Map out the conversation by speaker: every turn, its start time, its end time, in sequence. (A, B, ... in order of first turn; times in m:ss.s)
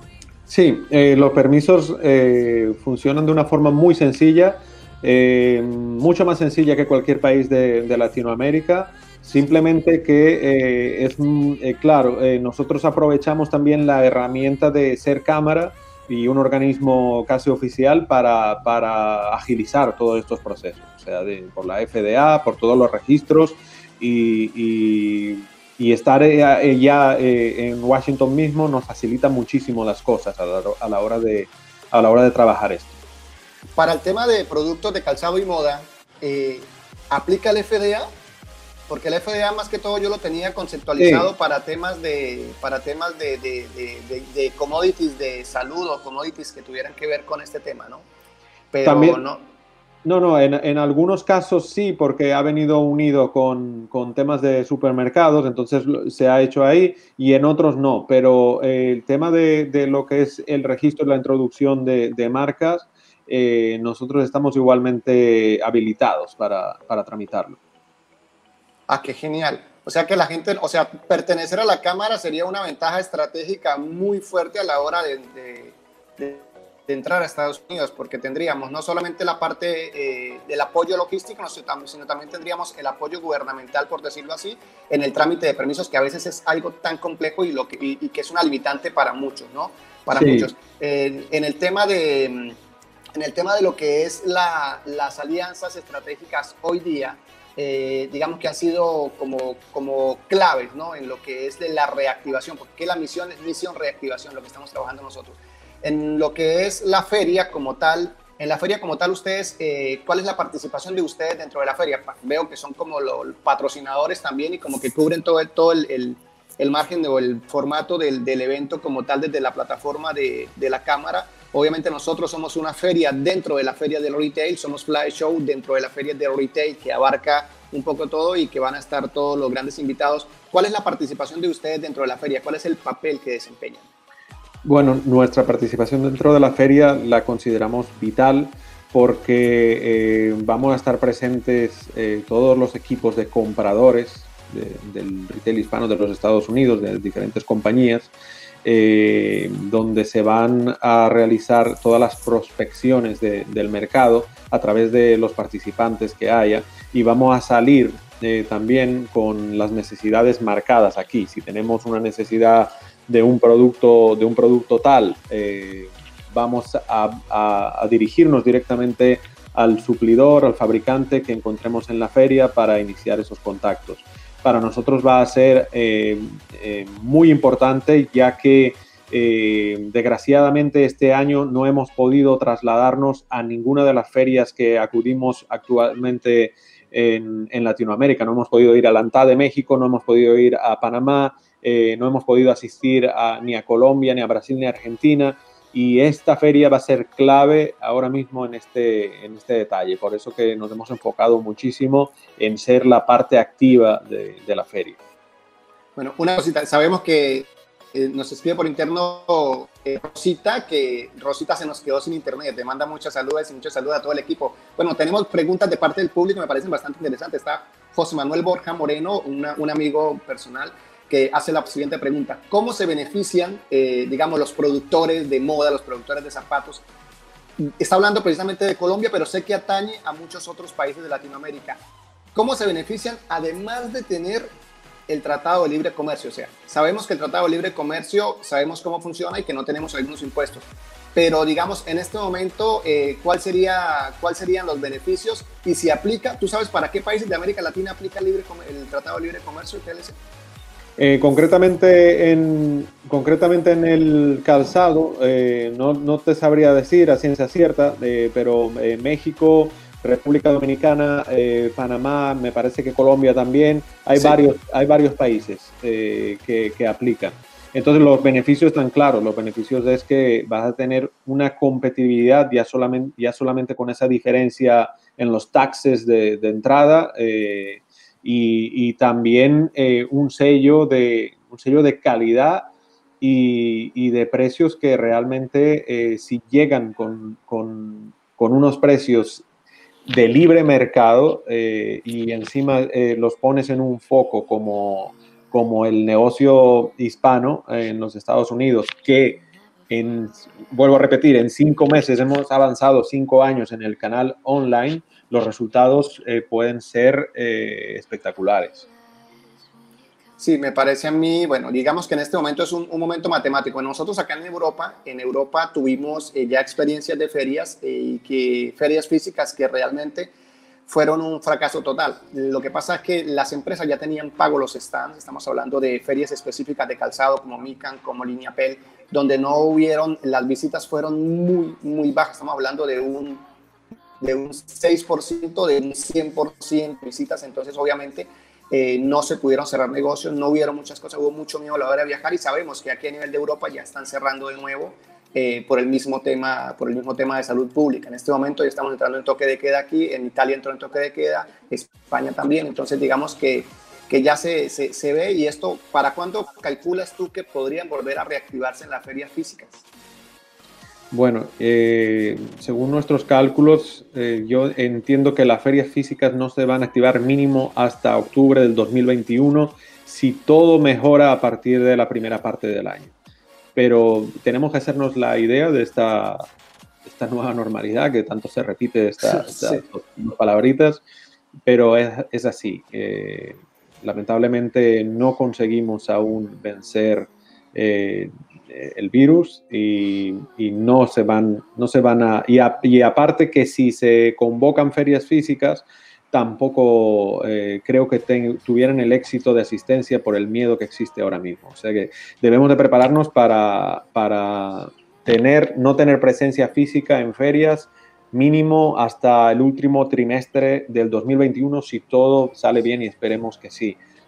0:00.5-0:33.0 A
0:33.8-0:38.1 B
0:38.9-0:48.1 B
0:41.0-0:41.3 A
0:48.7-0:49.4 B
0:48.8-0:49.2 A
0:50.0-1:07.6 A
1:08.9-1:32.6 B
1:30.1-1:30.5 A
1:33.2-2:13.9 B
2:14.6-2:28.1 A
2:28.6-3:25.0 A
3:26.0-3:46.8 B
3:47.6-3:51.8 B
3:52.3-3:54.5 B
3:55.1-4:10.2 B
4:11.0-4:49.4 A
4:50.1-5:08.9 A
5:10.4-5:20.3 B
5:20.9-5:33.5 B
5:34.2-5:59.8 B
6:01.1-6:13.1 A
6:13.8-6:16.5 A
6:17.0-6:21.0 A
6:19.3-6:19.8 B
6:21.6-6:54.0 A